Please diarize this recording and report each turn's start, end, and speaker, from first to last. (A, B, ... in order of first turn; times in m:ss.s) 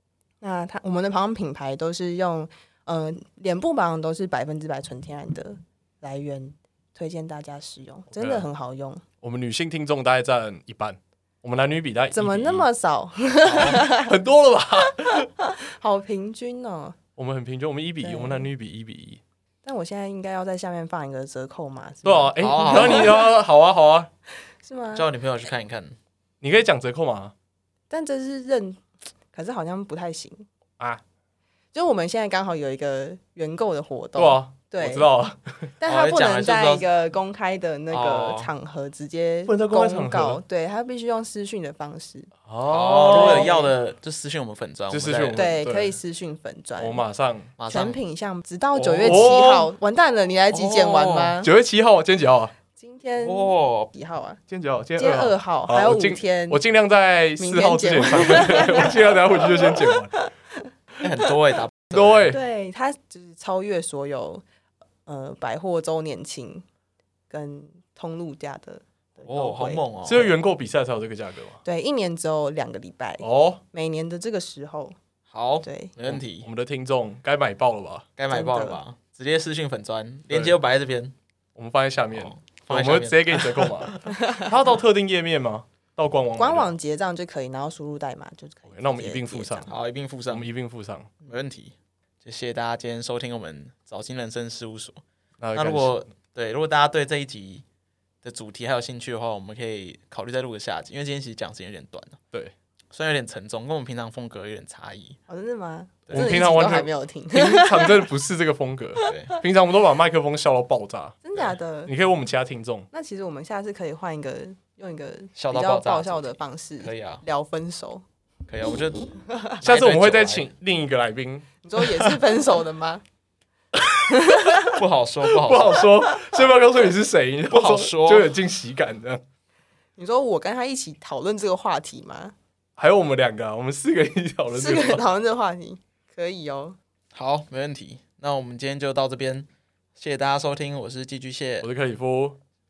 0:00.4-0:09.0 A
0:08.1-0:08.5 B
0:09.2-0:12.7 B
0:12.1-0:14.1 A
0:13.4-0:13.8 C
0:13.6-0:15.3 B
0:15.1-0:17.0 A
0:17.2-0:19.2 B
0:18.0-0:18.5 A
0:19.6-0:23.3 A
0:22.0-0:24.1 B
0:22.4-0:23.2 C
0:24.6-0:25.1 A
0:24.9-0:26.0 C
0:26.4-0:27.3 B
0:27.9-0:30.5 A
0:31.7-0:35.1 A
0:34.2-0:35.7 B
0:35.8-0:42.3 A
0:35.8-0:36.9 C
0:37.9-0:38.5 C
0:39.4-0:40.4 B
0:42.4-0:43.5 B
0:42.7-0:45.4 C
0:43.0-0:43.7 A
0:44.9-0:46.0 B
0:45.3-0:47.0 A
0:46.8-0:47.5 B
0:47.6-0:48.0 C
0:47.7-0:51.5 A
0:48.7-0:49.7 B
0:49.0-0:49.3 C
0:50.5-0:51.4 C
0:51.4-0:52.5 B
0:52.8-0:54.4 A
0:53.2-0:53.9 C
0:54.5-1:00.2 B
0:55.0-0:56.6 A
0:57.4-1:00.6 A
1:01.0-1:02.3 C
1:01.9-1:02.4 B
1:02.3-1:04.4 A
1:05.0-1:06.6 A
1:07.3-1:09.8 A
1:09.2-1:10.3 C
1:10.0-1:11.6 B
1:11.6-1:15.0 A
1:13.2-1:13.6 B
1:15.3-1:16.5 C
1:15.6-1:15.9 A
1:16.0-1:18.1 B
1:18.2-1:21.1 C
1:18.3-1:18.8 A
1:20.3-1:20.6 B
1:21.5-1:26.7 B
1:22.1-1:24.1 C
1:26.4-1:29.7 A
1:28.7-1:29.7 B
1:29.7-1:30.5 C
1:30.3-1:31.1 B
1:31.2-1:35.0 C
1:35.4-1:35.9 B
1:35.5-1:37.6 C
1:38.2-1:42.2 C
1:42.9-1:45.2 C
1:45.3-1:48.1 A
1:46.1-1:46.3 C
1:46.1-1:52.9 B
1:49.0-1:49.4 C
1:51.2-1:51.9 A
1:52.9-1:58.0 A
1:55.4-1:57.2 C
1:58.5-2:00.5 C
1:59.3-1:59.6 A
1:59.6-2:01.5 B
2:01.6-2:03.0 A
2:03.7-2:04.6 B
2:04.1-2:04.8 A
2:04.6-2:05.9 C
2:05.3-2:09.2 B
2:07.5-2:08.3 C
2:10.0-2:12.3 A
2:12.8-2:15.0 B
2:14.5-2:16.8 A
2:17.1-2:21.7 C
2:21.6-2:22.4 B